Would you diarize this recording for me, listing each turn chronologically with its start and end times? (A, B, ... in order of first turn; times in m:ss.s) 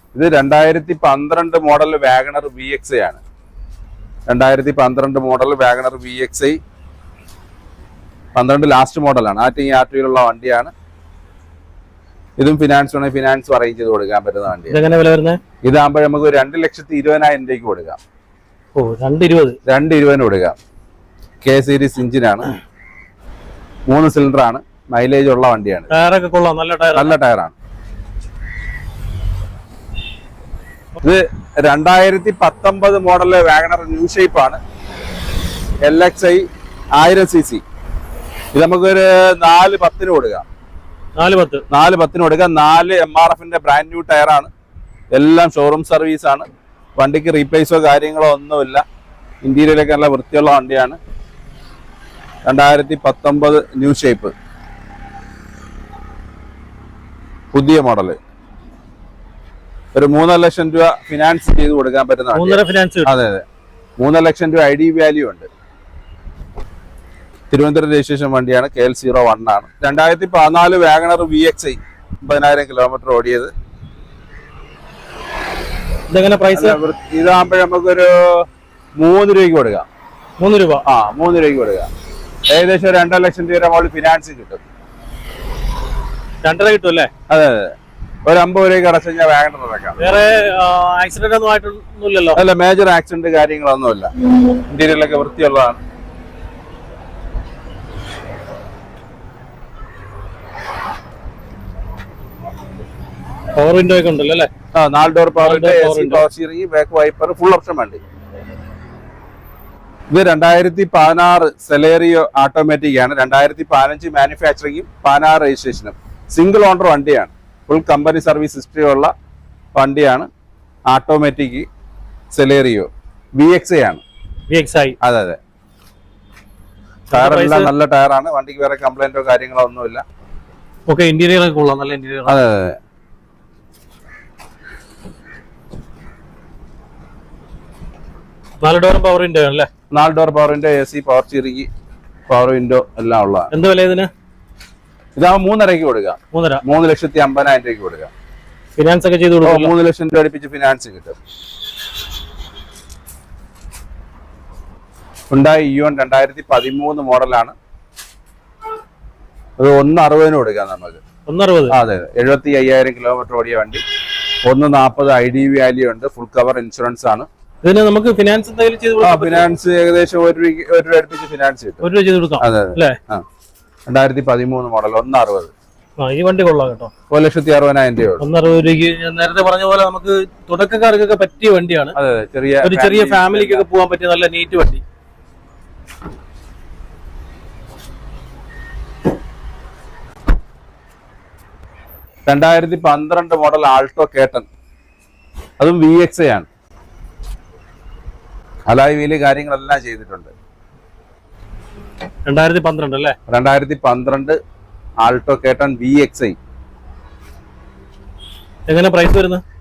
0:00.1-0:03.2 A
0:04.3-0:06.6 A
0:08.3-0:10.7 A
0:12.4-0:14.8 A
0:14.7-0:15.4 B
0:15.6-0:18.0 A
0:18.7-0:19.6 B
0:19.6-0:20.6 A
0:21.4-0:22.5 A
0:23.9-0:25.9 A
0:25.9-0:27.1 B
0:26.9-0:27.5 A
0:31.0-0:34.6 A
0:35.8-0:37.6 A
0:38.5-0:40.4 A
0:41.2-0:41.6 B
0:41.7-0:44.5 A
0:45.1-0:46.4 A
0:47.0-0:48.8 A
0:49.4-0:51.0 A
0:52.4-0:54.3 A
0:57.5-0:58.2 A
0:59.9-1:03.4 A
1:02.3-1:03.1 B
1:04.0-1:05.5 A
1:07.5-1:13.5 A
1:16.1-1:16.8 B
1:16.5-1:18.5 A
1:19.0-1:19.8 A
1:20.4-1:20.8 B
1:20.8-1:21.9 A
1:22.5-1:24.6 A
1:26.4-1:27.1 B
1:27.3-1:27.7 A
1:28.2-1:30.2 A
1:30.0-1:32.4 B
1:32.3-1:34.1 A
1:34.7-1:35.8 A
1:43.6-1:44.5 B
1:44.7-1:48.0 A
1:45.4-1:46.2 B
1:50.1-1:59.1 A
1:59.8-2:00.3 A
2:00.9-2:01.6 A
2:02.3-2:04.0 A
2:04.5-2:05.0 B
2:05.0-2:05.4 A
2:07.1-2:07.7 B
2:07.1-2:10.0 A
2:10.9-2:12.4 B
2:12.3-2:12.8 A
2:18.6-2:19.7 B
2:19.9-2:21.7 A
2:22.3-2:23.5 A
2:23.5-2:24.1 B
2:25.2-2:28.1 A
2:26.3-2:26.6 B
2:28.8-2:29.7 B
2:29.4-2:31.2 A
2:35.3-2:37.5 A
2:39.6-2:41.0 A
2:41.2-2:41.8 B
2:41.7-2:43.8 A
2:44.4-2:47.3 A
2:47.6-2:49.4 B
2:49.0-2:51.8 A
2:51.8-2:53.0 B
2:52.4-2:53.2 A
2:53.9-2:55.5 A
2:56.0-2:56.9 B
2:57.1-2:58.2 A
2:58.2-3:01.9 B
3:01.9-3:03.6 A
3:02.6-3:04.8 B
3:12.2-3:14.5 A
3:15.6-3:16.5 A
3:18.7-3:20.3 A
3:22.3-3:23.2 B
3:23.3-3:24.4 A
3:25.0-3:26.4 A
3:28.7-3:29.4 B